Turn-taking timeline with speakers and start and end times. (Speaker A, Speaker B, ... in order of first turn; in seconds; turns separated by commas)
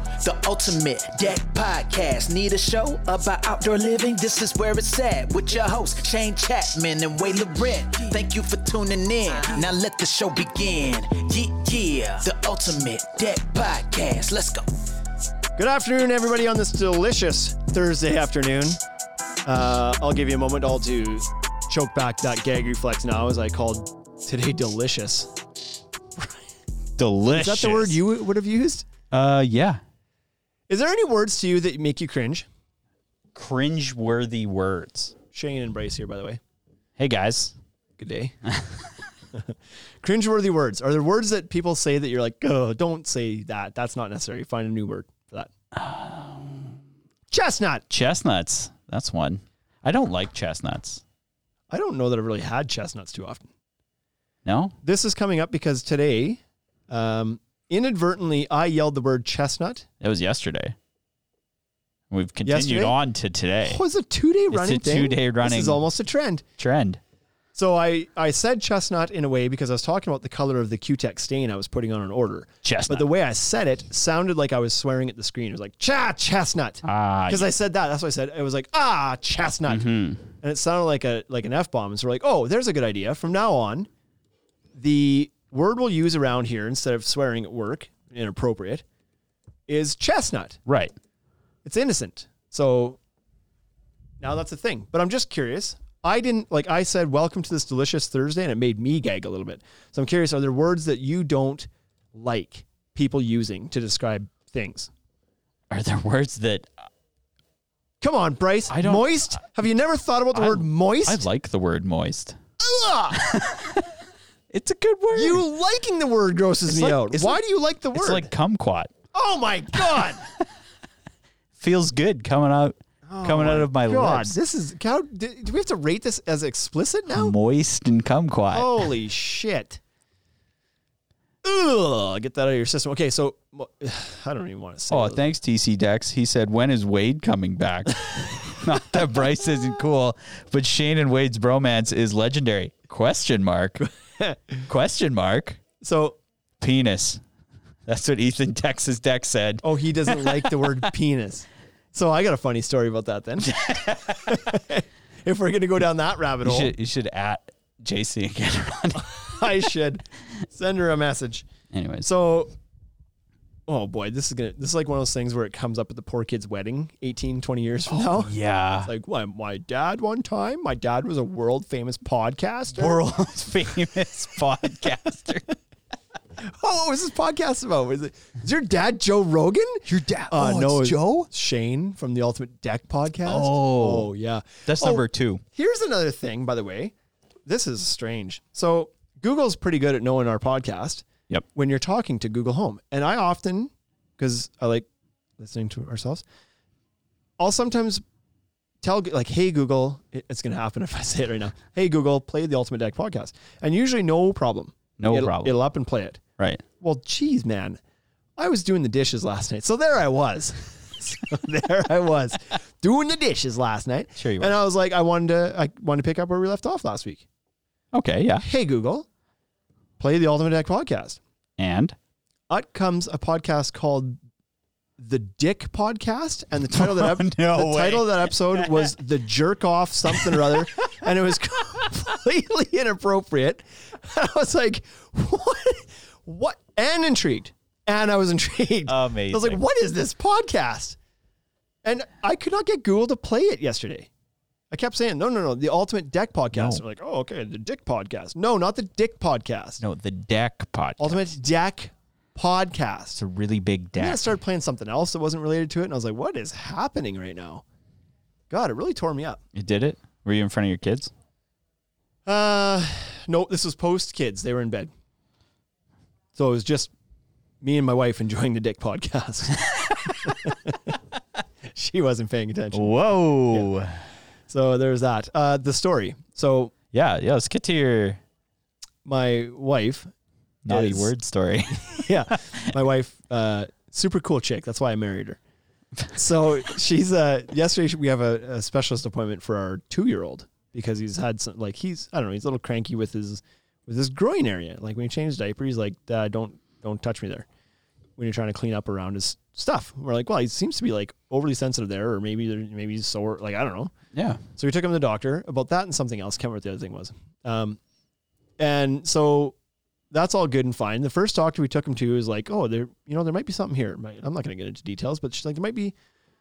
Speaker A: 0.2-14.7, Speaker B: 15.6-18.8, Speaker B: 19.4-25.3, Speaker C: 27.0-28.0, Speaker B: 27.3-28.9, Speaker C: 29.1-29.8, Speaker B: 30.7-32.5, Speaker C: 33.4-35.1, Speaker B: 35.3-36.4, Speaker C: 37.0-37.6, Speaker B: 38.0-38.4, Speaker C: 38.5-38.9, Speaker B: 39.3-45.5, Speaker C: 45.7-46.8, Speaker B: 47.3-47.9, Speaker C: 47.9-51.0, Speaker B: 51.7-53.5, Speaker C: 54.5-54.8, Speaker B: 54.8-59.9, Speaker C: 60.0-60.8, Speaker C: 62.1-63.8, Speaker B: 62.5-63.0, Speaker B: 63.6-66.4, Speaker C: 64.5-65.8, Speaker C: 66.6-67.0, Speaker B: 67.5-83.9, Speaker C: 72.6-73.1, Speaker C: 76.8-77.5, Speaker C: 79.7-80.2, Speaker B: 84.8-88.8, Speaker B: 89.7-90.6, Speaker C: 90.7-90.9, Speaker B: 91.7-93.0, Speaker B: 94.2-104.9, Speaker C: 105.7-106.9, Speaker B: 108.0-111.2, Speaker C: 108.7-109.4, Speaker C: 110.3-112.4, Speaker B: 112.6-113.2, Speaker C: 113.1-113.9, Speaker C: 114.5-115.4, Speaker B: 115.1-118.3, Speaker C: 116.7-117.4, Speaker C: 117.9-118.9, Speaker B: 119.1-120.2, Speaker C: 119.8-120.1, Speaker C: 121.6-124.3, Speaker B: 123.1-127.4, Speaker C: 127.1-128.7, Speaker B: 128.5-129.8, Speaker B: 131.4-135.3, Speaker C: 134.9-143.8, Speaker B: 144.2-144.6, Speaker C: 144.7-145.6, Speaker B: 145.8-146.2, Speaker C: 146.6-147.2, Speaker C: 147.9-150.7, Speaker B: 149.6-156.7, Speaker C: 153.4-154.3, Speaker C: 156.4-159.6, Speaker B: 159.0-161.5, Speaker C: 161.7-162.1, Speaker B: 162.0-162.5, Speaker B: 163.7-173.0, Speaker C: 167.9-168.9, Speaker C: 172.8-175.6, Speaker B: 176.4-186.9, Speaker C: 179.9-181.3, Speaker C: 183.2-184.1, Speaker C: 184.7-185.4, Speaker B: 187.5-194.9, Speaker B: 195.4-196.2, Speaker B: 197.4-198.0, Speaker B: 198.8-206.2, Speaker C: 205.0-205.6, Speaker B: 206.8-207.8, Speaker B: 208.4-217.2, Speaker C: 214.2-214.6, Speaker C: 217.9-218.5, Speaker B: 218.4-219.1, Speaker B: 220.0-221.2, Speaker C: 221.6-222.0, Speaker B: 222.5-224.2, Speaker B: 225.0-241.0, Speaker C: 226.7-228.9, Speaker C: 230.1-230.7, Speaker C: 238.9-239.6, Speaker B: 241.8-244.1, Speaker B: 244.7-249.8, Speaker C: 246.5-246.8, Speaker C: 249.8-251.2, Speaker B: 251.0-253.2, Speaker C: 253.2-254.3, Speaker B: 254.0-257.6, Speaker B: 258.5-259.4, Speaker C: 259.5-261.1, Speaker B: 262.3-264.9, Speaker B: 266.4-266.9, Speaker B: 267.6-269.6, Speaker C: 269.8-270.3, Speaker B: 270.2-271.0, Speaker B: 271.7-272.9, Speaker C: 272.7-274.0, Speaker B: 274.5-276.7, Speaker C: 276.9-278.2, Speaker B: 279.1-280.1, Speaker C: 280.6-282.6, Speaker B: 280.7-281.1, Speaker B: 281.8-285.4, Speaker B: 286.1-297.5, Speaker B: 298.2-303.9, Speaker C: 304.1-304.4, Speaker B: 304.6-307.8, Speaker B: 308.6-309.6, Speaker B: 310.1-315.9